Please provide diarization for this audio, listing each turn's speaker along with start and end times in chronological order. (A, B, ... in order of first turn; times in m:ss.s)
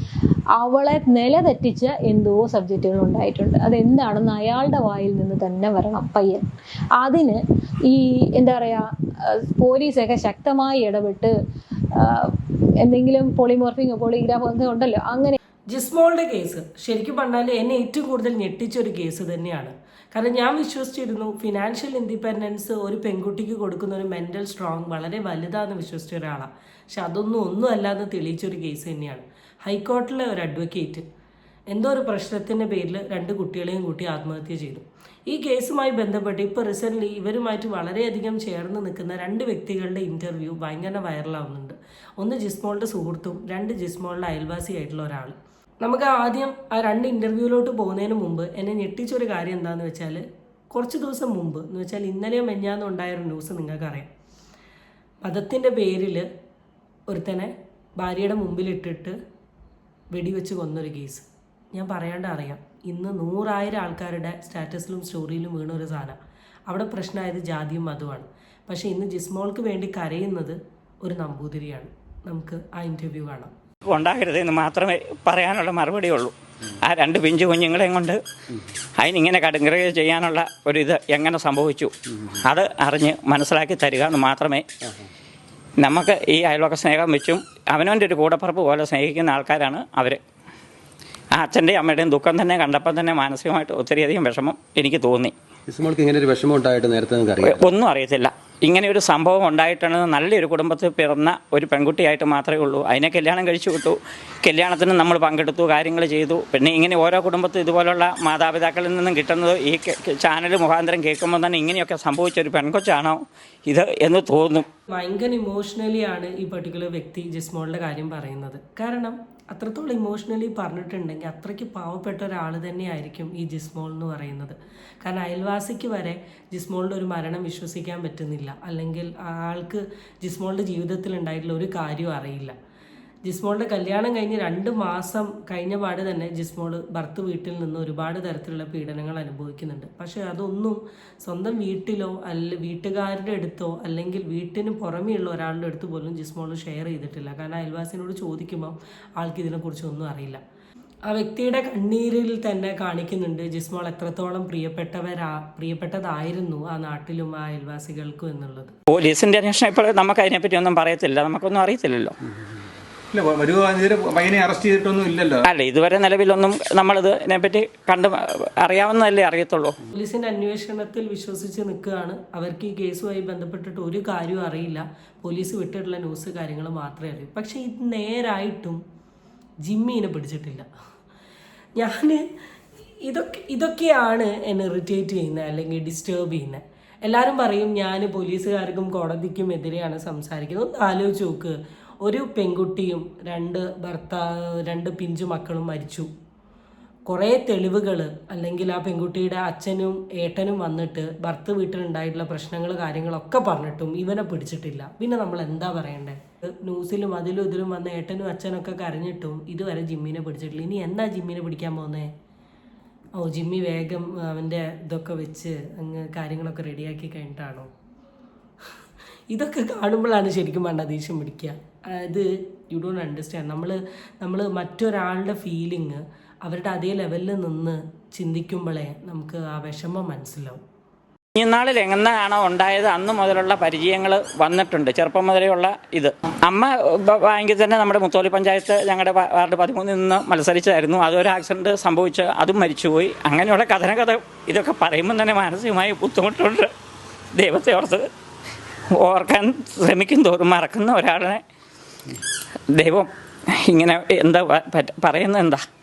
0:00.6-0:06.4 A
0:07.0-0:11.3 A
0:12.0-0:15.4 A
0:15.7-0:31.0 B
0:31.7-0:54.1 B
0:55.2-0:56.3 B
0:57.1-0:59.2 B
1:00.1-1:13.5 B
1:13.9-1:18.2 C
1:19.0-1:24.6 C
1:25.8-1:30.2 C
1:31.3-1:35.3 C
1:35.7-1:37.6 D
1:37.4-1:54.7 C
1:54.9-2:12.6 B
2:13.2-2:30.4 B
2:31.1-2:38.7 B
2:38.9-2:42.2 C
2:43.1-2:45.5 E
2:45.4-2:49.7 C
2:49.9-2:58.8 B
2:59.6-3:00.7 B
3:01.8-3:02.2 B
3:03.0-3:16.1 B
3:17.1-3:32.1 B
3:33.2-3:37.7 B
3:39.3-3:50.6 B
3:51.4-4:06.7 C
4:07.4-4:08.0 C
4:09.0-4:11.4 C
4:12.8-4:13.1 C
4:13.7-4:15.6 C